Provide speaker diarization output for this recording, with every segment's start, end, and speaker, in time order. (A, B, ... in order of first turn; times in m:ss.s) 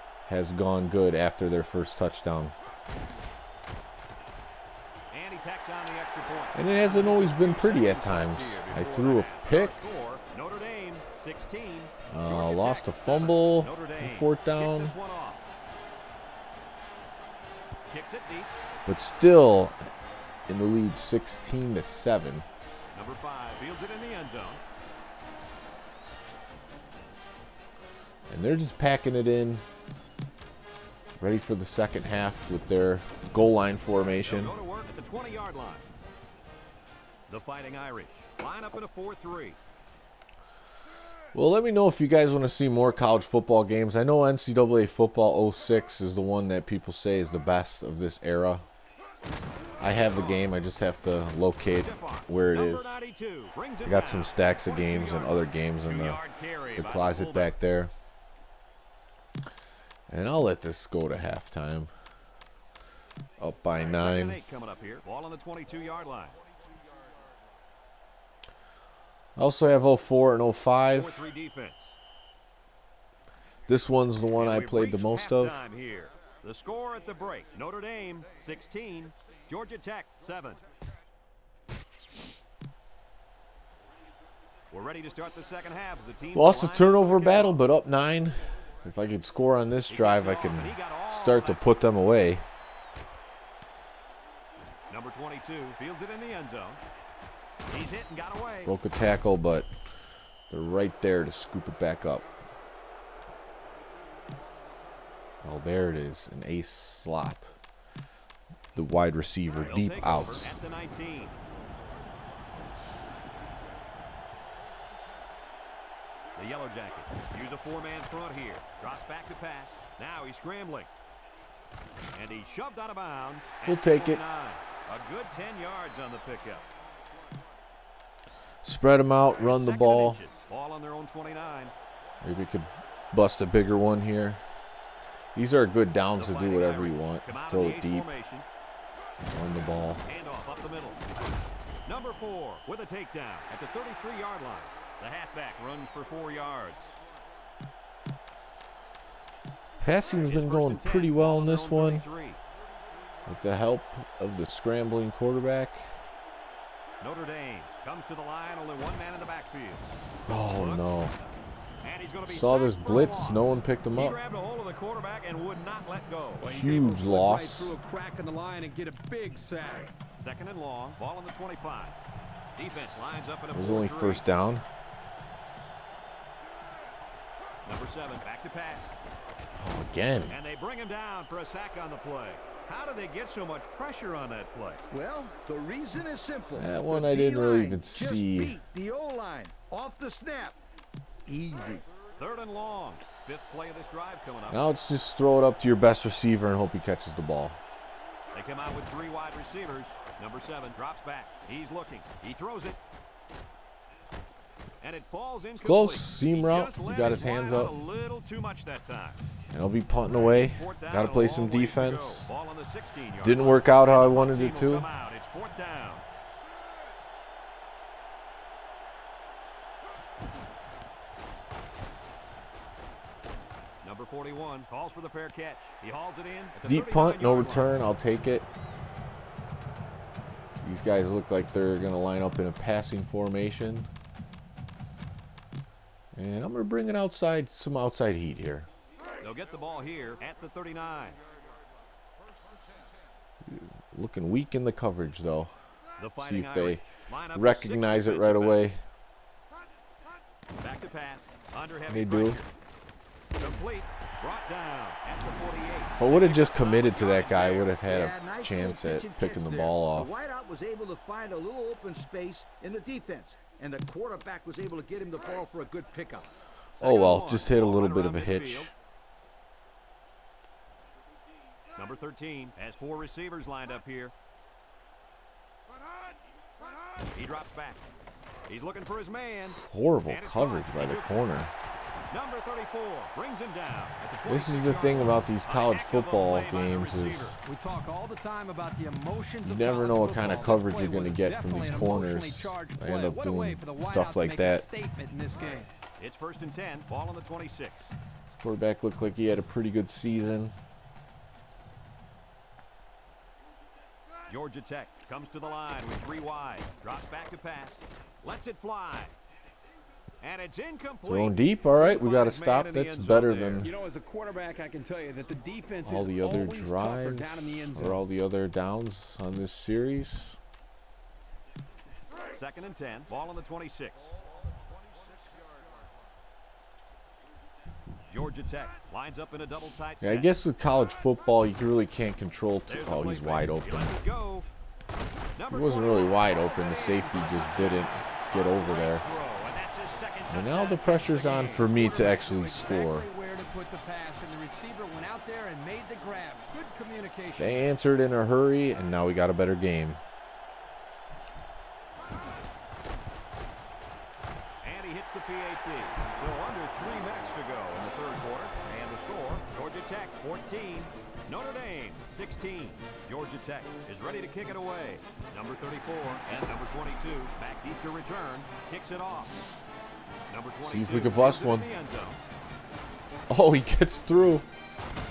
0:00.2-0:02.6 A
0:05.1-0:15.4 B
0:06.5-0:09.9 A
0:12.1-0:14.9 A
0:17.9-0:18.5 B
0:18.8-0:19.8 A
0:20.5-0:22.4 A
0:22.9-0:24.6 B
0:28.3-0:29.6 A
0:31.2-0:34.5 A
0:34.2-0:35.8 B
0:37.3-0:39.6 B
0:41.3-0:48.6 A
0:49.8-0:53.0 A
0:49.8-0:50.5 B
0:51.7-0:57.5 B
0:53.8-0:56.2 A
0:56.7-0:57.9 A
1:00.1-1:01.9 A
1:03.4-1:04.4 A
1:03.7-1:06.4 B
1:09.4-1:11.3 A
1:10.9-1:12.0 B
1:13.7-1:15.7 A
1:14.3-1:20.6 B
1:24.7-1:27.6 B
1:26.3-1:32.4 A
1:29.9-1:31.6 B
1:34.9-1:36.8 B
1:37.7-1:38.7 B
1:38.6-1:39.7 A
1:40.5-1:42.2 A
1:45.4-1:47.6 A
1:48.7-1:50.5 A
1:49.6-1:51.4 B
1:56.4-2:00.9 B
2:02.1-2:06.7 B
2:03.6-2:04.2 A
2:08.6-2:10.2 A
2:09.4-2:11.7 B
2:12.2-2:14.4 A
2:15.3-2:18.1 A
2:16.2-2:18.4 B
2:19.3-2:20.0 A
2:20.0-2:21.0 B
2:21.8-2:27.0 B
2:29.8-2:32.1 A
2:30.3-2:32.4 B
2:33.3-2:35.9 A
2:37.0-2:39.8 B
2:40.3-2:41.1 A
2:40.5-2:40.9 B
2:41.8-2:46.5 B
2:42.2-2:44.2 A
2:46.4-2:50.0 C
2:46.4-2:47.7 A
2:50.2-2:52.0 B
2:52.5-2:54.2 B
2:53.5-2:54.6 A
2:57.6-2:58.9 B
2:59.5-3:00.4 A
3:00.3-3:04.8 B
3:04.9-3:10.6 D
3:06.6-3:08.6 A
3:11.2-3:11.8 D
3:12.2-3:14.6 B
3:14.5-3:17.6 A
3:18.3-3:22.8 B
3:24.8-3:29.2 B
3:25.6-3:27.7 A
3:29.5-3:32.3 A
3:30.5-3:36.0 B
3:33.2-3:34.9 A
3:43.8-3:47.7 B
3:46.6-3:48.5 A
3:50.6-3:53.9 A
3:56.1-3:58.7 A
3:59.2-4:01.2 B
4:03.4-4:05.5 A
4:06.0-4:08.7 B
4:06.2-4:06.8 A
4:07.3-4:08.8 A
4:10.6-4:12.5 B
4:11.9-4:12.4 A
4:13.4-4:17.8 B
4:16.0-4:20.1 A
4:17.8-4:26.3 D
4:26.8-4:28.7 B
4:26.8-4:28.7 A
4:31.7-4:34.1 B
4:37.1-4:37.8 B
4:38.5-4:41.3 B
4:39.5-4:41.5 A
4:42.1-4:47.4 B
4:44.2-4:47.4 A
4:47.4-4:55.7 C
4:49.4-4:54.6 A
4:56.0-4:57.9 B
4:58.4-5:00.5 A
5:04.3-5:09.1 B
5:10.2-5:13.6 B
5:11.0-5:13.7 A
5:13.6-5:18.0 C
5:15.8-5:20.4 A
5:22.3-5:24.1 B
5:28.1-5:30.3 B
5:30.0-5:33.9 A
5:32.7-5:34.4 B
5:35.4-5:41.7 B
5:35.5-5:39.0 A
5:40.3-5:43.1 A
5:41.6-5:47.6 C
5:47.4-5:50.0 A
5:54.6-6:09.4 B
6:10.3-6:12.2 B
6:10.6-6:11.7 A
6:13.3-6:14.4 A